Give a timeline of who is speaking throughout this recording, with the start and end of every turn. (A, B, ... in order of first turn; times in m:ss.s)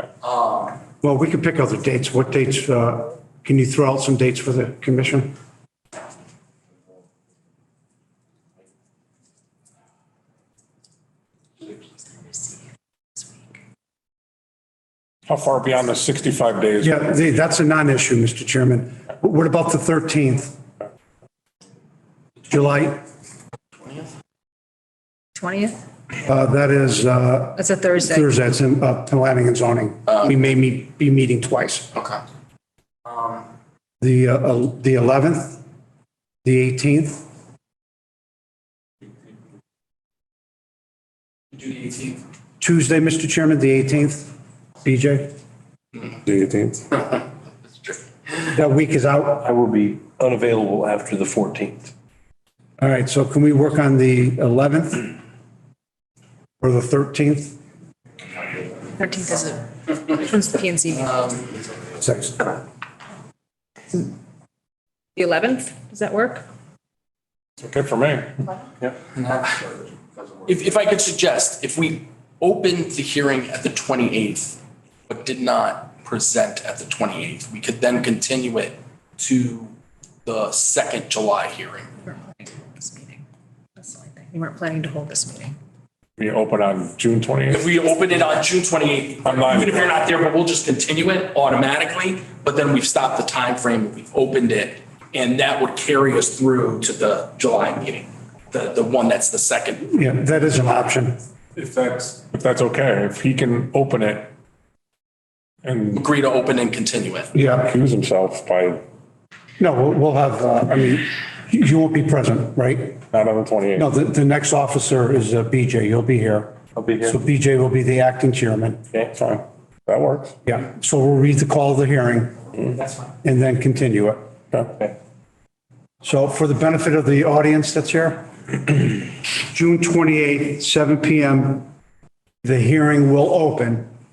0:00.2-0:00.8 A
0:01.0-0:05.3 B
0:15.3-0:17.0 C
0:16.8-0:20.6 B
0:22.5-0:23.0 B
0:25.4-0:25.8 D
0:26.2-0:32.0 B
0:27.6-0:28.3 D
0:34.0-0:35.6 B
0:36.4-0:37.2 B
0:41.5-0:42.2 A
0:42.6-0:44.3 B
0:44.8-0:45.3 B
0:46.2-0:46.9 C
0:48.5-0:49.4 B
0:49.4-0:51.9 E
0:52.8-0:55.1 B
0:56.6-0:57.6 B
0:59.0-1:01.2 D
1:01.1-1:01.4 A
1:02.0-1:02.4 B
1:05.2-1:06.4 D
1:07.6-1:08.4 C
1:10.4-1:19.7 A
1:20.2-1:21.9 A
1:22.0-1:23.2 D
1:23.8-1:25.6 D
1:26.2-1:27.6 C
1:27.5-1:39.9 A
1:29.2-1:29.9 C
1:39.9-1:41.2 B
1:41.6-1:44.3 C
1:45.6-1:46.0 C
1:45.9-1:47.3 A
1:47.3-1:47.7 B
1:47.6-1:48.8 C
1:49.6-1:53.0 B
1:53.1-1:53.8 C
1:53.8-1:56.5 B
1:56.8-1:57.1 E
1:57.0-1:58.8 B
1:59.1-2:00.4 C
2:00.4-2:02.4 B
2:03.2-2:04.2 B
2:06.0-2:11.7 B
2:12.4-2:13.9 B